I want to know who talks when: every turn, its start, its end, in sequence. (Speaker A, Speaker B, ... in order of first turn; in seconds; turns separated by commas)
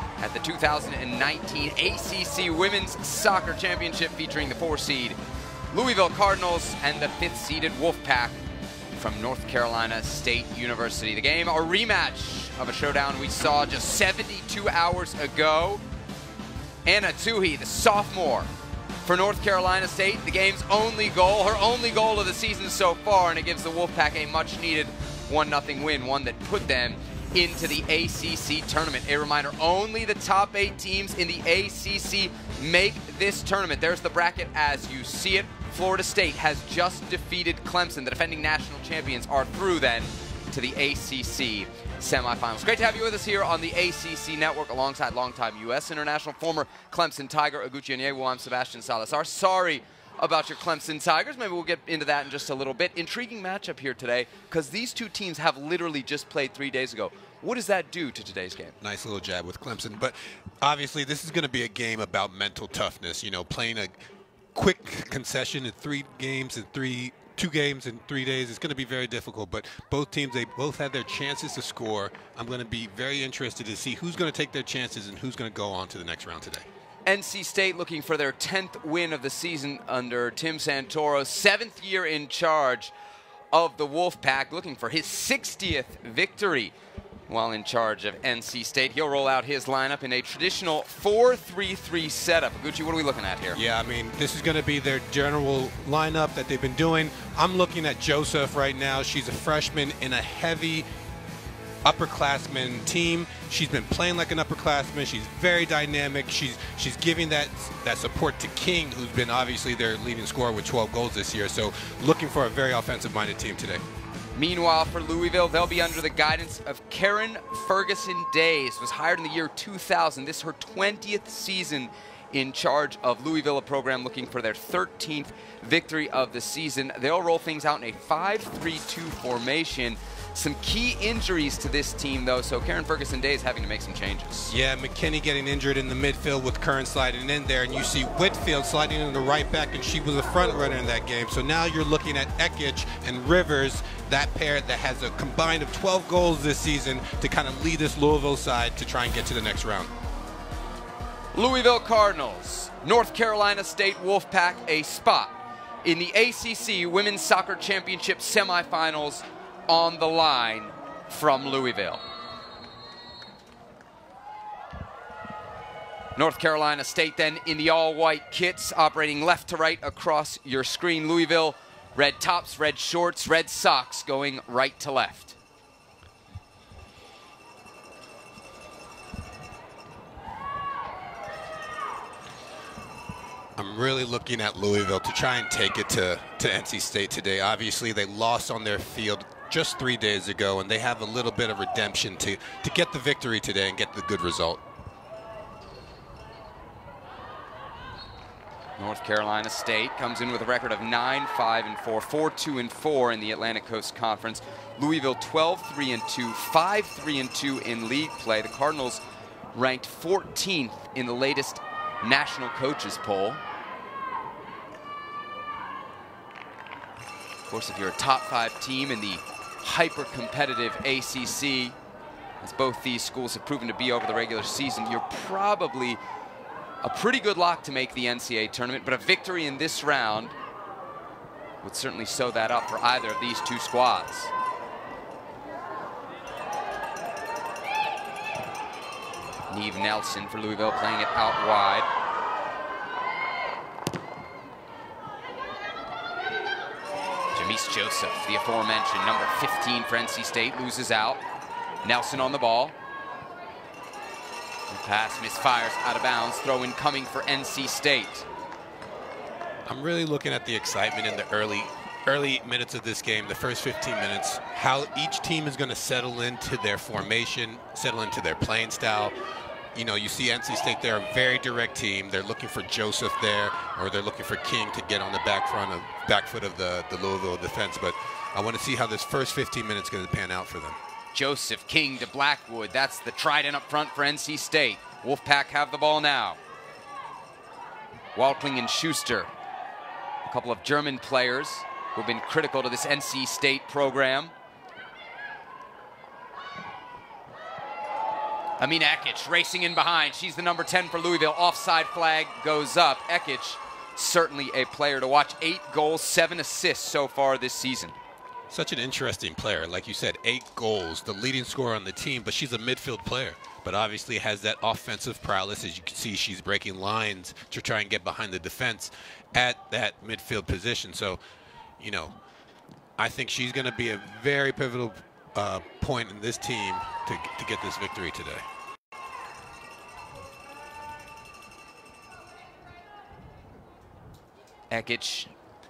Speaker A: 0.2-5.2, Speaker A: 5.7-8.4, Speaker A: 8.9-15.8, Speaker A: 16.9-18.5, Speaker A: 19.0-58.8, Speaker B: 58.8-64.0, Speaker B: 64.5-76.7, Speaker A: 77.1-82.9, Speaker A: 83.5-86.8, Speaker A: 87.3-93.6, Speaker B: 93.5-100.9, Speaker B: 101.8-113.8, Speaker A: 114.3-134.5, Speaker B: 134.5-149.9, Speaker A: 151.3-162.0, Speaker A: 166.2-175.4, Speaker B: 183.6-194.6, Speaker A: 198.8-209.0, Speaker A: 209.5-213.4, Speaker A: 217.5-221.8, Speaker A: 222.4-226.0, Speaker A: 226.8-230.3, Speaker A: 231.6-234.3, Speaker A: 239.5-241.9, Speaker A: 247.3-251.2, Speaker A: 251.8-252.8, Speaker A: 254.7-258.3, Speaker B: 259.7-269.2, Speaker B: 269.7-280.8, Speaker A: 281.1-286.4, Speaker A: 288.1-289.3, Speaker A: 290.3-294.3, Speaker A: 298.6-308.0, Speaker B: 308.5-321.2, Speaker B: 321.8-322.1, Speaker B: 323.0-328.4, Speaker A: 334.7-335.3